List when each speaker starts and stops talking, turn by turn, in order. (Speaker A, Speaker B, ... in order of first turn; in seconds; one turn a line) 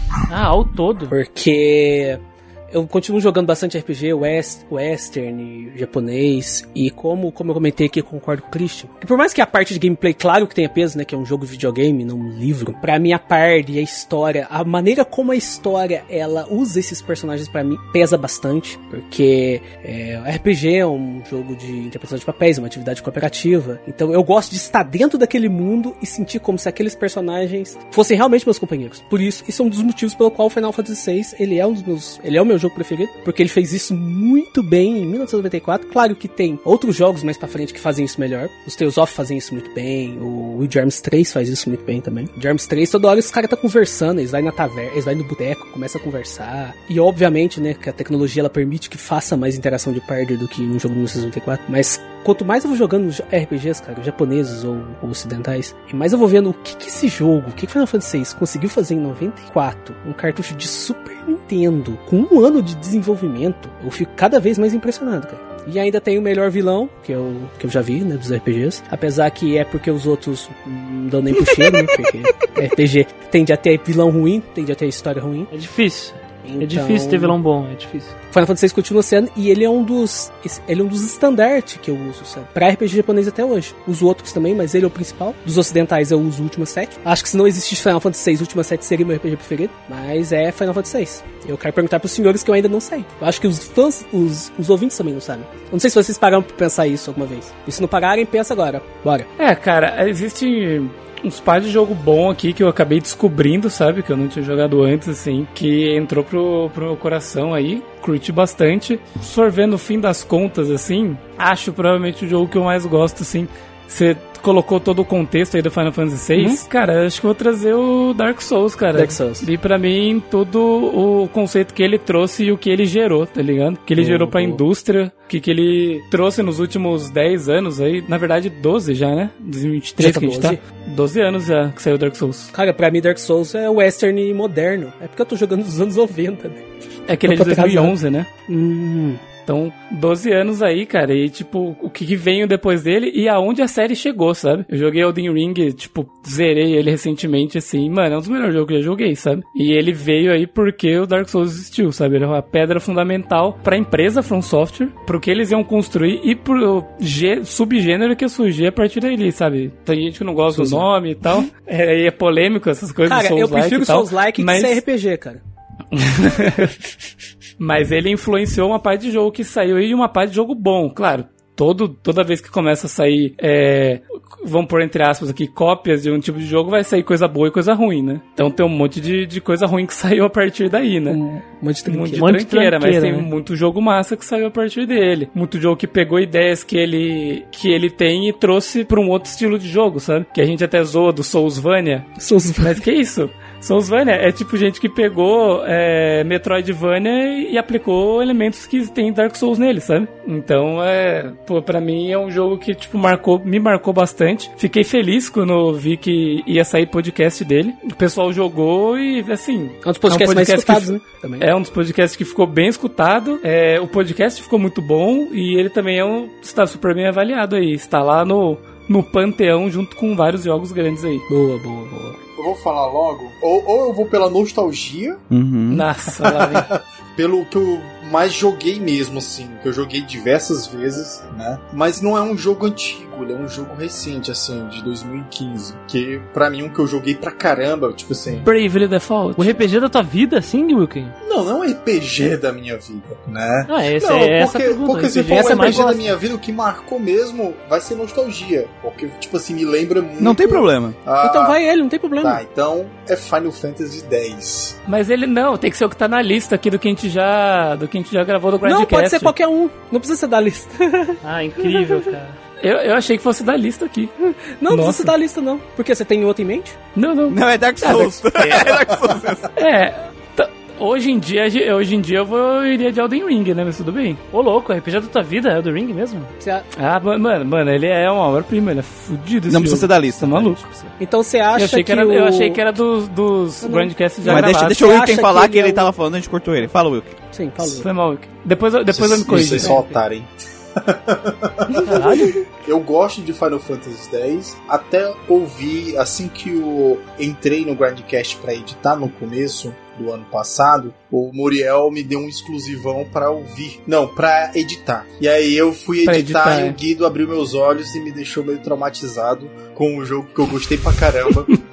Speaker A: 0.3-1.1
Speaker B: 1.1-2.2
Speaker B: 2.7-75.5
Speaker A: 75.5-78.1
Speaker B: 76.4-77.3
Speaker B: 78.3-99.3
Speaker C: 99.4-132.5
Speaker B: 116.3-116.6
Speaker B: 118.9-119.5
Speaker B: 124.0-124.6
Speaker B: 130.0-130.6
Speaker B: 132.5-136.6
Speaker C: 137.1-138.3
Speaker B: 137.2-137.9
Speaker B: 138.5-139.2
Speaker C: 139.4-164.8
Speaker B: 160.5-160.9
Speaker B: 163.1-165.4
Speaker C: 165.9-166.8
Speaker C: 167.6-181.2
Speaker B: 181.1-182.3
Speaker C: 181.8-221.2
Speaker A: 182.2-183.3
Speaker B: 192.2-192.8
Speaker B: 209.8-211.5
Speaker B: 221.3-222.2
Speaker D: 222.3-225.2
Speaker E: 225.3-225.9
Speaker C: 225.7-226.7
Speaker D: 226.1-238.5
Speaker C: 238.4-239.6
Speaker A: 239.4-241.2
Speaker D: 241.2-251.6
Speaker A: 243.7-246.1
Speaker B: 245.3-246.0
Speaker E: 250.2-250.9
Speaker B: 251.2-252.4
Speaker D: 252.2-254.8
Speaker C: 254.9-259.3
Speaker B: 258.6-262.0
Speaker A: 261.2-262.4
Speaker C: 262.6-264.1
Speaker B: 264.6-266.8
Speaker C: 264.7-265.1
Speaker C: 266.9-268.3
Speaker E: 267.3-269.5
Speaker C: 269.6-274.2
Speaker A: 274.3-276.3
Speaker B: 276.4-276.6
Speaker C: 276.8-280.6
Speaker E: 279.5-280.9
Speaker B: 281.0-282.6
Speaker C: 281.5-284.8
Speaker B: 283.6-285.9
Speaker E: 284.2-287.1
Speaker B: 287.3-287.9
Speaker C: 287.6-289.8
Speaker D: 288.9-311.6
Speaker B: 289.4-290.0
Speaker A: 291.9-292.4
Speaker C: 306.0-306.8